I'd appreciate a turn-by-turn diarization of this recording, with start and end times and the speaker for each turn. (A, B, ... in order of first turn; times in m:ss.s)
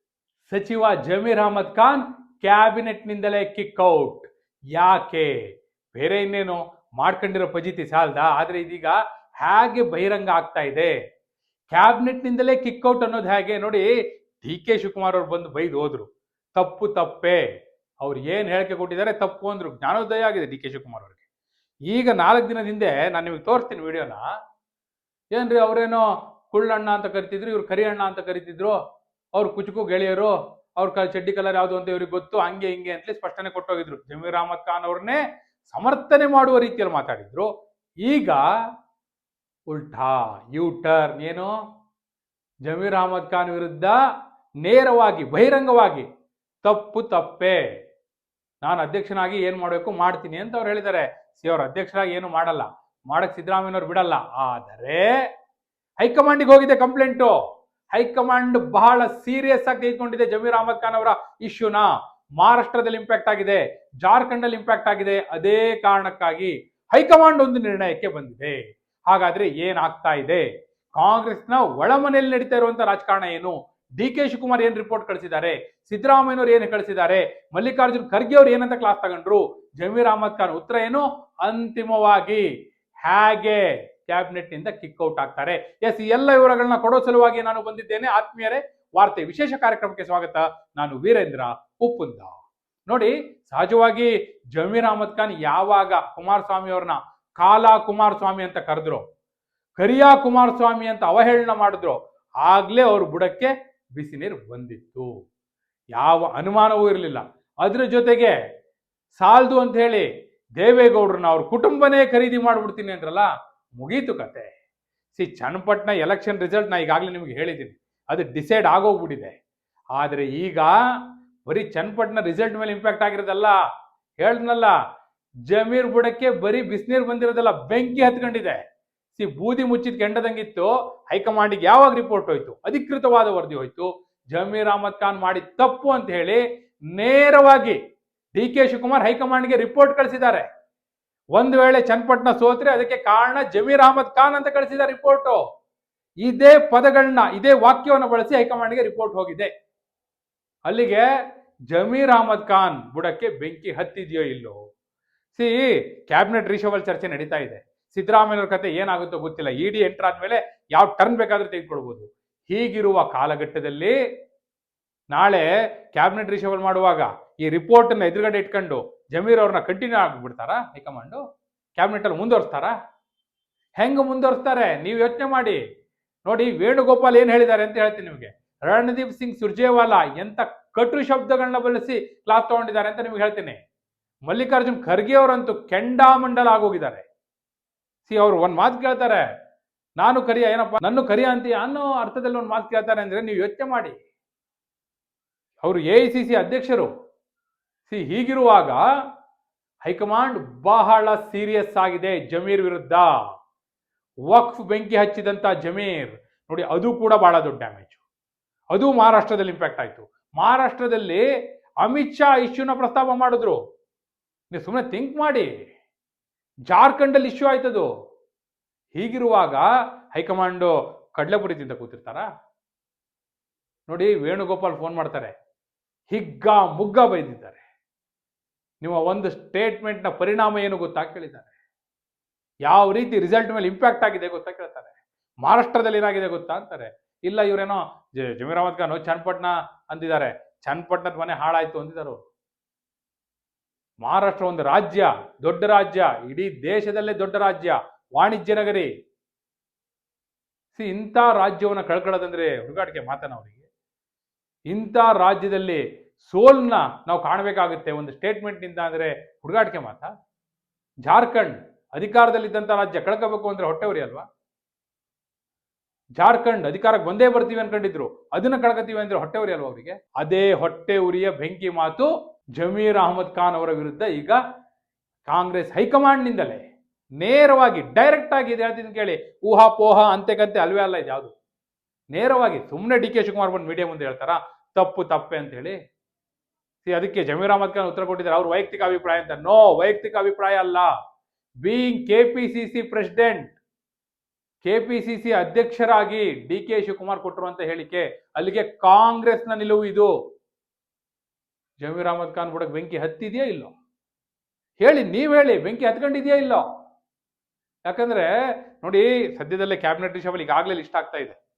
0:00.5-0:05.3 A
0:05.9-0:11.0 A
0:11.7-0:13.9 A
0:14.4-0:17.4 A
0:18.0-0:21.2 A
0:21.9-0:24.2 A
0:25.3-0:28.8 A
0:29.4-0:37.5 A
0:38.0-0:38.4 A
0:39.7-0:41.5 A
0:42.6-0:44.0 A
0:44.6-0:46.0 A
0:46.6-0:47.6 A
0:48.6-0:55.1 A
0:56.0-0:57.4 A
0:57.9-1:22.5 A
1:23.0-1:39.0 A
1:39.8-1:45.1 A
1:45.9-1:48.3 A
1:49.2-1:54.5 A
1:55.1-1:59.4 A
2:00.0-2:03.6 A
2:04.2-2:04.7 A
2:05.5-2:08.6 A
2:09.1-2:17.8 A
2:18.3-2:20.4 A
2:21.3-2:25.4 A
2:26.2-2:29.5 A
2:30.7-2:31.0 A
2:31.7-2:34.6 A
2:35.3-2:43.9 A
2:45.1-2:51.2 A
2:51.8-2:52.7 A
2:53.8-2:55.6 A
2:56.2-3:03.6 A
3:04.3-3:07.0 A
3:08.0-3:09.2 A
3:10.0-3:14.0 A
3:15.6-3:16.9 A
3:17.9-3:18.8 A
3:19.8-3:23.1 A
3:24.3-3:28.0 A
3:28.7-3:31.2 A
3:31.8-3:33.6 A
3:34.5-3:35.5 A
3:36.7-3:37.9 A
3:38.9-3:42.2 A
3:43.9-3:45.3 A
3:46.1-3:47.6 A
3:48.8-3:51.5 A
3:52.7-4:02.2 A
4:04.0-4:08.9 A
4:10.7-4:13.6 A
4:14.7-4:20.1 A
4:21.0-4:24.2 A
4:26.2-4:34.4 A
4:35.2-4:36.6 A
4:37.2-4:41.3 A
4:42.1-4:45.8 A
4:46.8-4:50.9 A
4:51.6-4:53.5 A
4:54.6-5:00.1 A
5:01.8-5:03.7 A
5:04.8-5:06.6 A
5:07.8-5:11.4 A